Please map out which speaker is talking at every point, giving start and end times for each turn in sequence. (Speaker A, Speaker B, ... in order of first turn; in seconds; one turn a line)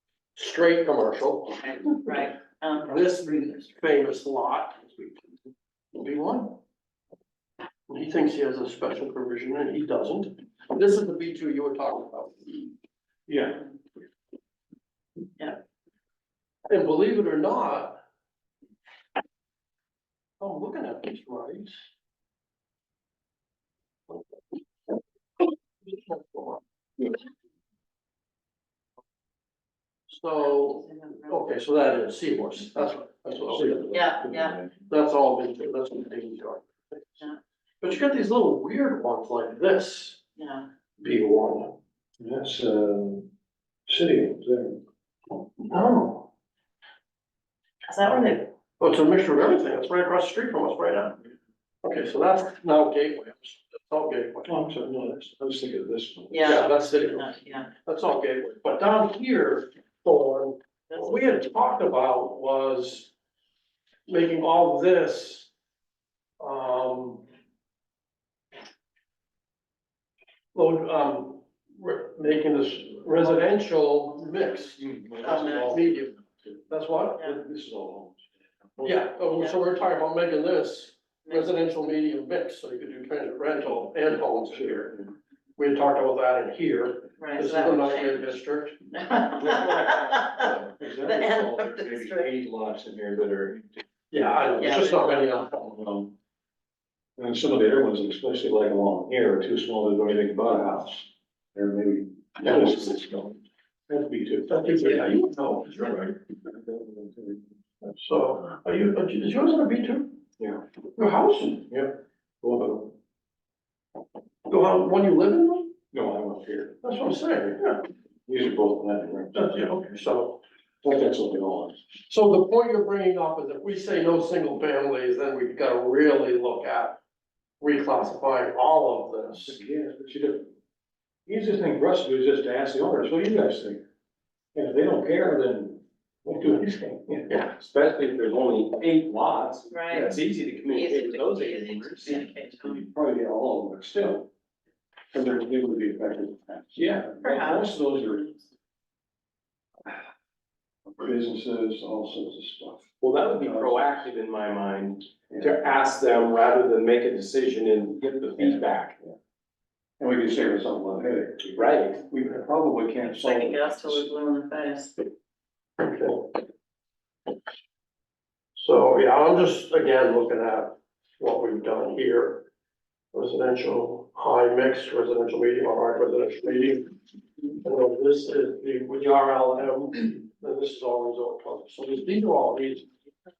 Speaker A: 0.3-1.9
Speaker B: 1.7-3.8
Speaker A: 2.9-5.2
Speaker A: 5.9-6.6
Speaker A: 7.9-12.5
Speaker C: 13.3-13.7
Speaker A: 16.7-18.0
Speaker A: 20.4-21.8
Speaker A: 25.9-26.6
Speaker A: 30.1-34.0
Speaker B: 30.4-31.5
Speaker C: 33.5-34.7
Speaker B: 33.9-34.6
Speaker A: 34.9-37.0
Speaker A: 37.8-40.2
Speaker B: 40.4-40.6
Speaker A: 41.0-41.7
Speaker C: 42.2-43.2
Speaker C: 43.9-44.8
Speaker A: 45.7-46.2
Speaker B: 47.9-48.5
Speaker A: 48.1-51.2
Speaker A: 51.8-54.5
Speaker C: 54.5-56.7
Speaker B: 56.3-57.7
Speaker A: 56.4-63.1
Speaker B: 60.9-61.2
Speaker A: 64.1-65.5
Speaker A: 66.4-67.2
Speaker A: 70.5-74.8
Speaker B: 74.2-74.6
Speaker C: 74.8-76.6
Speaker B: 75.2-75.7
Speaker A: 75.4-76.2
Speaker A: 76.7-77.3
Speaker C: 77.2-78.2
Speaker C: 78.8-79.1
Speaker A: 78.8-85.0
Speaker B: 81.2-81.5
Speaker C: 84.5-85.0
Speaker A: 85.6-88.8
Speaker B: 87.2-88.3
Speaker B: 88.9-90.5
Speaker C: 89.3-93.8
Speaker B: 91.0-92.3
Speaker A: 94.1-95.5
Speaker B: 94.6-95.5
Speaker C: 95.5-96.1
Speaker C: 97.2-104.5
Speaker A: 102.4-102.7
Speaker A: 104.5-106.2
Speaker C: 106.5-107.5
Speaker A: 107.8-110.1
Speaker A: 111.0-111.7
Speaker C: 111.7-112.9
Speaker A: 114.5-115.7
Speaker C: 115.9-116.8
Speaker A: 116.8-117.8
Speaker C: 118.3-120.0
Speaker A: 119.3-120.4
Speaker C: 120.8-121.8
Speaker A: 122.1-127.0
Speaker A: 127.6-129.6
Speaker C: 129.4-130.5
Speaker C: 131.2-133.8
Speaker C: 134.5-137.4
Speaker A: 137.3-137.5
Speaker D: 137.5-142.2
Speaker B: 139.7-140.2
Speaker B: 140.7-142.8
Speaker C: 142.6-144.3
Speaker C: 145.1-148.3
Speaker B: 147.2-148.3
Speaker C: 150.9-154.1
Speaker D: 153.0-158.9
Speaker C: 155.3-155.7
Speaker C: 158.3-159.1
Speaker C: 160.0-164.1
Speaker D: 161.6-162.0
Speaker B: 163.0-165.0
Speaker A: 165.8-166.3
Speaker A: 168.6-172.4
Speaker A: 173.1-176.9
Speaker A: 177.6-182.9